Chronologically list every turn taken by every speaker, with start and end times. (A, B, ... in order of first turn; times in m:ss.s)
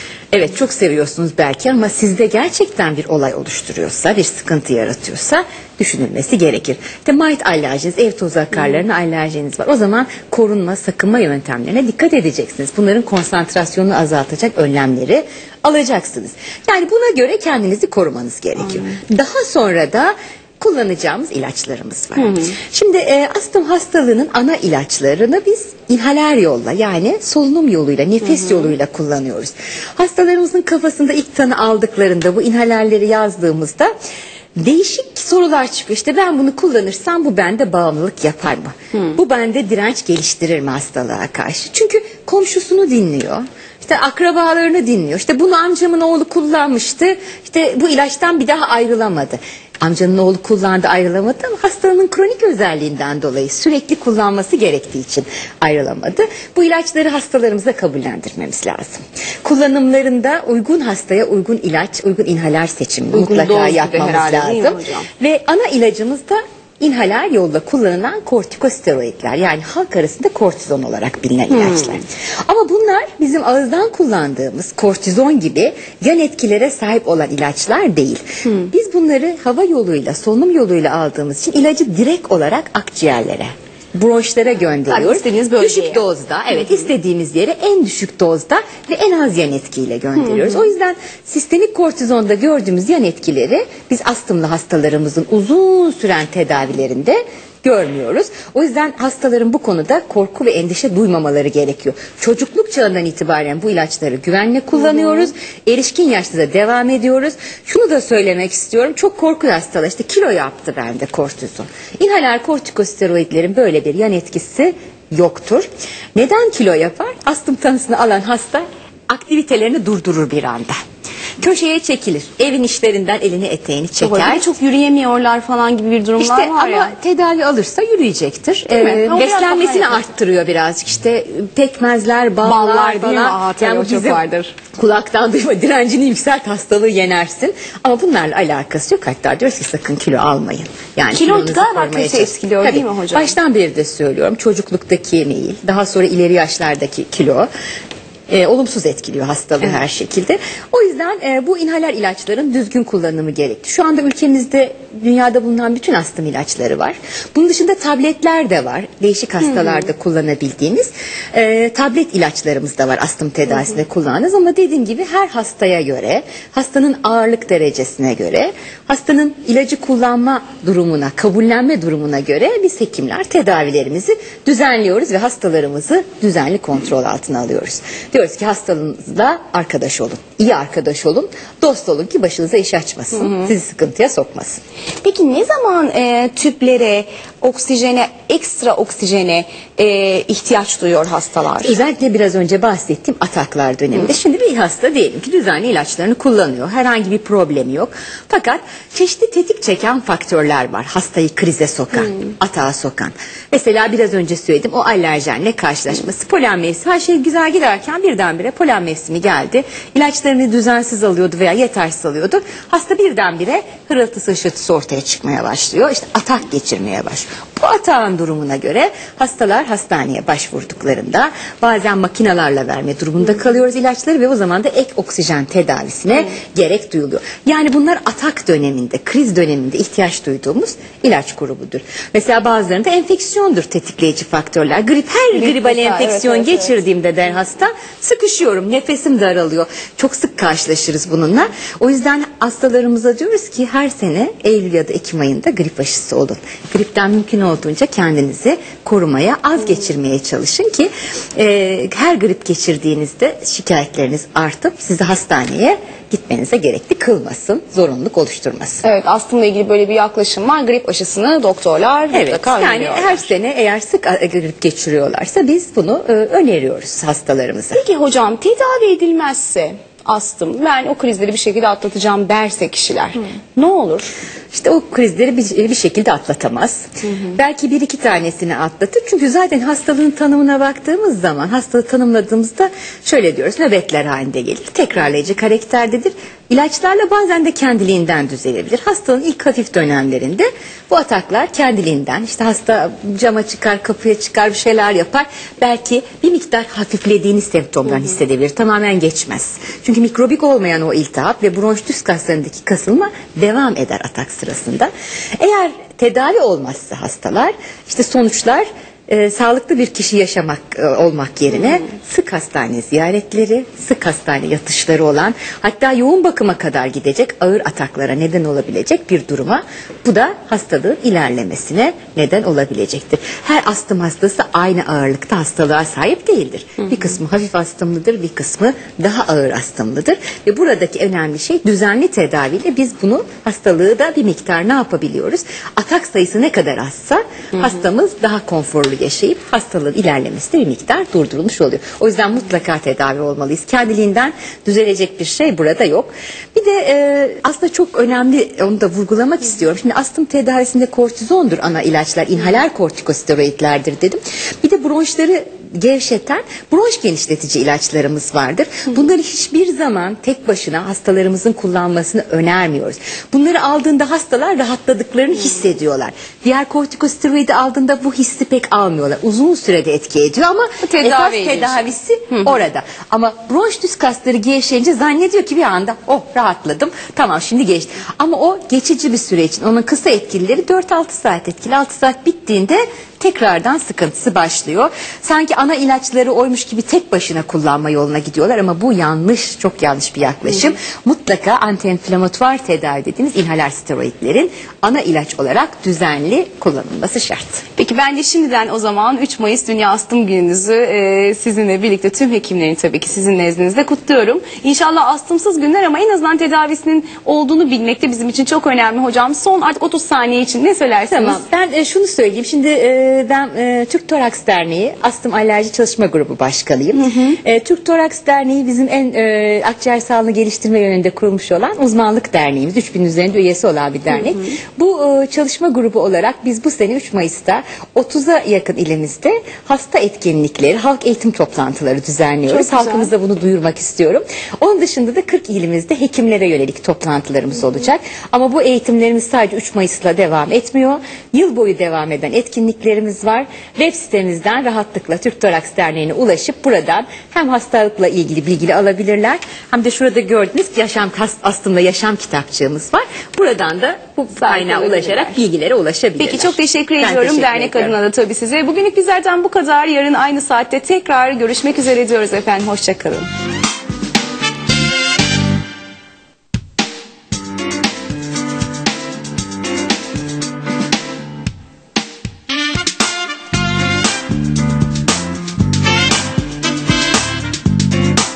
0:00.3-0:33.9 A
0:34.6-2:00.8 A
1:03.1-1:05.1 B
1:11.7-1:11.9 B
1:24.9-1:26.0 B
1:30.3-1:30.6 B
2:01.4-2:04.5 A
2:04.0-2:07.0 B
2:06.2-2:14.2 A
2:08.7-2:10.0 B
2:12.4-2:14.5 B
2:14.8-2:27.5 A
2:21.1-2:23.4 B
2:28.3-3:04.6 A
3:05.0-3:11.8 B
3:11.6-4:18.8 A
3:55.3-3:56.8 B
4:18.8-4:23.3 B
4:22.1-4:27.8 A
4:27.7-4:34.1 B
4:34.5-6:37.6 A
6:10.8-6:12.5 B
6:37.8-6:51.4 B
6:51.1-7:38.0 A
6:57.0-6:57.4 B
7:12.5-7:13.1 B
7:34.3-7:35.4 B
7:36.2-7:43.3 B